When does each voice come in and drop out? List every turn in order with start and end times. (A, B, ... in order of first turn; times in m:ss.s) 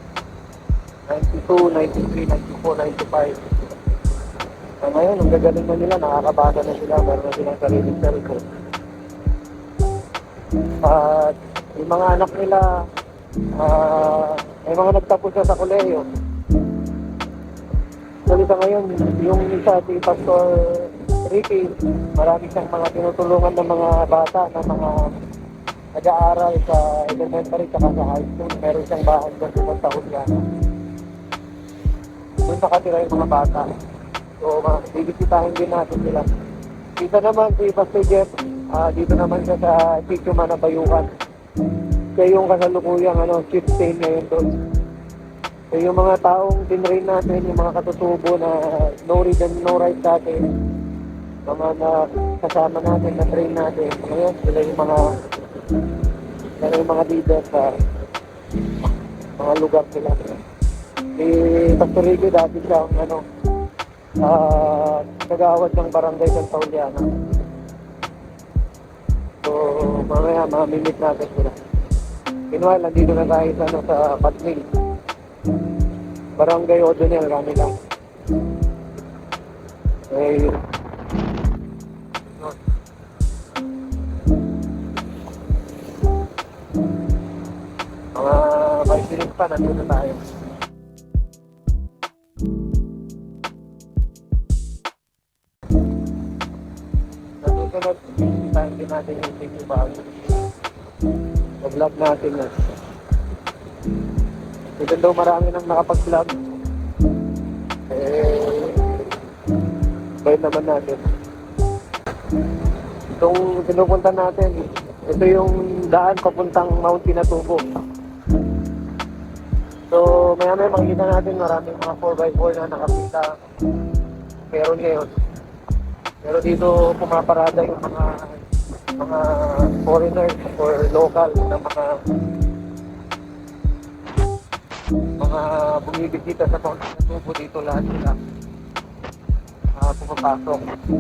0:01.1-0:03.4 A
0:04.8-0:08.4 A
0:10.8-0:12.6 A
0:13.6-0:16.0 A
0:18.3-0:25.1 A
0:26.0-0:30.4 A
0:32.4-0:33.7 A
0:34.4-0:36.3 A
0:37.0-0:41.1 A
0:42.2-0:44.5 A
0:45.7-0:50.4 A
0:51.4-0:55.0 A
0:56.6-0:57.7 A
0:59.4-1:00.3 A
1:01.2-1:03.2 A
1:04.2-1:07.1 A
1:09.4-1:11.6 A
1:12.5-1:14.6 A
1:16.4-1:17.7 A
1:20.1-1:20.6 A
1:28.1-1:30.2 A
1:37.4-1:40.1 A
1:41.6-1:42.5 A
1:44.8-1:46.3 A
1:47.9-1:49.0 A
1:50.2-1:51.0 A
1:53.2-1:57.6 A
1:59.9-2:03.3 A
2:04.5-2:05.1 A
2:06.2-2:08.4 A
2:09.0-2:12.0 A
2:15.2-2:18.2 A
2:19.8-2:20.6 A